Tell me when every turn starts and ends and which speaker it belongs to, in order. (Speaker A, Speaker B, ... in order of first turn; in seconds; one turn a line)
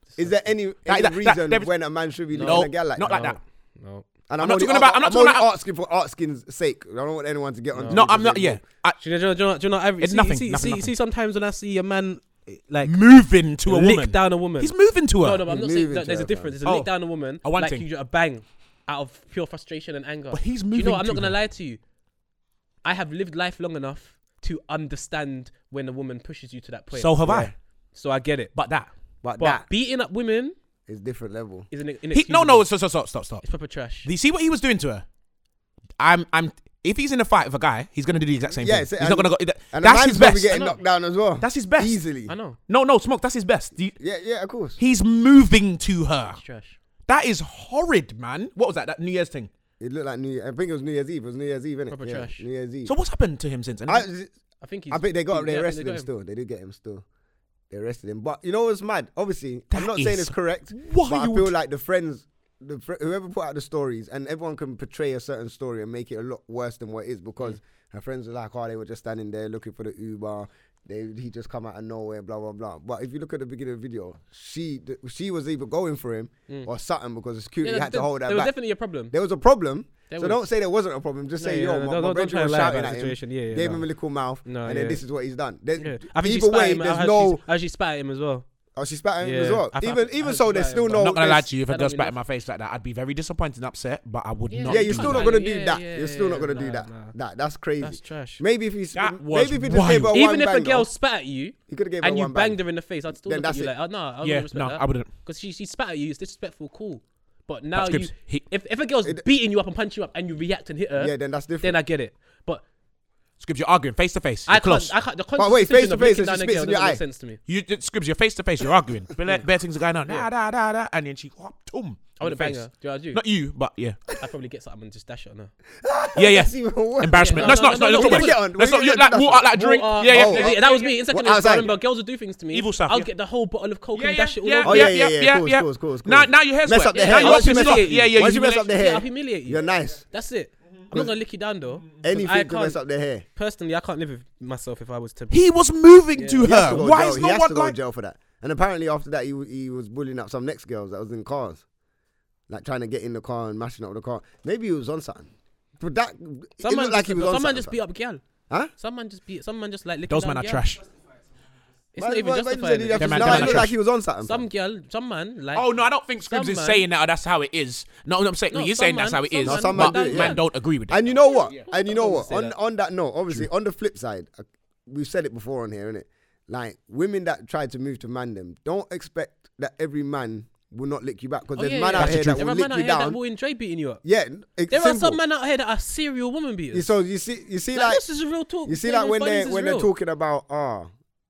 Speaker A: 0.2-3.2
Speaker B: 0.8-1.7
Speaker C: 2.3-4.1
Speaker B: 2.4-3.4
Speaker A: 4.3-8.6
Speaker B: 4.4-5.5
Speaker C: 7.7-8.1
Speaker B: 7.9-9.0
Speaker C: 9.0-12.9
Speaker B: 10.0-10.9
Speaker B: 12.8-15.4
Speaker C: 13.7-21.8
Speaker A: 15.5-16.5
Speaker B: 16.6-17.9
Speaker B: 20.3-21.4
Speaker C: 22.8-27.3
Speaker B: 26.9-27.5
Speaker A: 27.2-27.5
Speaker C: 27.9-28.5
Speaker B: 28.5-28.9
Speaker A: 29.2-29.6
Speaker C: 29.4-30.6
Speaker A: 30.9-31.7
Speaker C: 31.7-32.6
Speaker B: 32.1-33.5
Speaker C: 33.4-34.1
Speaker B: 34.0-35.0
Speaker B: 36.0-40.6
Speaker A: 38.6-42.3
Speaker C: 40.5-40.8
Speaker B: 41.4-42.0
Speaker C: 42.3-42.6
Speaker B: 42.7-44.0
Speaker A: 44.0-44.8
Speaker B: 44.8-46.4
Speaker C: 46.3-46.8
Speaker B: 47.1-49.5
Speaker A: 49.8-52.9
Speaker C: 51.9-52.4
Speaker B: 52.8-54.0
Speaker A: 53.9-54.3
Speaker C: 54.6-56.1
Speaker A: 54.9-57.0
Speaker A: 57.7-78.5
Speaker B: 59.7-61.5
Speaker C: 77.6-79.1
Speaker A: 79.1-87.4
Speaker C: 80.1-80.4
Speaker C: 81.4-83.9
Speaker C: 84.4-85.0
Speaker C: 85.8-88.5
Speaker A: 88.8-91.5
Speaker C: 89.2-92.2
Speaker B: 90.9-95.4
Speaker C: 94.5-97.1
Speaker A: 94.7-100.9
Speaker C: 97.8-98.4
Speaker B: 98.9-100.1
Speaker C: 100.1-112.6
Speaker A: 101.7-102.6
Speaker A: 103.1-103.7
Speaker B: 104.2-105.1
Speaker B: 107.7-108.5
Speaker A: 111.0-111.8
Speaker B: 113.4-114.9
Speaker C: 114.5-117.4
Speaker A: 115.4-117.0
Speaker B: 117.5-124.0
Speaker C: 122.2-123.2
Speaker C: 124.2-125.5
Speaker A: 125.8-129.5
Speaker B: 126.2-131.0
Speaker C: 127.2-128.4
Speaker C: 129.5-134.9
Speaker A: 130.1-131.7
Speaker B: 132.5-133.1
Speaker B: 133.9-138.9
Speaker A: 134.6-140.0
Speaker C: 136.9-142.8
Speaker B: 141.7-142.0
Speaker A: 142.0-143.2
Speaker C: 143.3-145.4
Speaker B: 145.3-147.8
Speaker C: 146.1-146.5
Speaker A: 146.4-151.6
Speaker A: 152.5-157.8
Speaker C: 156.6-158.2
Speaker C: 158.8-160.7
Speaker B: 160.1-160.8
Speaker C: 161.9-163.7
Speaker A: 162.0-164.4
Speaker B: 163.0-163.7
Speaker C: 164.2-166.8
Speaker B: 165.5-171.6
Speaker C: 168.5-170.4
Speaker A: 169.4-183.2
Speaker C: 171.3-172.6
Speaker C: 181.6-184.0
Speaker B: 182.0-182.4
Speaker A: 184.0-185.2
Speaker C: 184.7-186.9
Speaker A: 186.7-188.0
Speaker C: 187.7-189.9
Speaker A: 188.6-190.9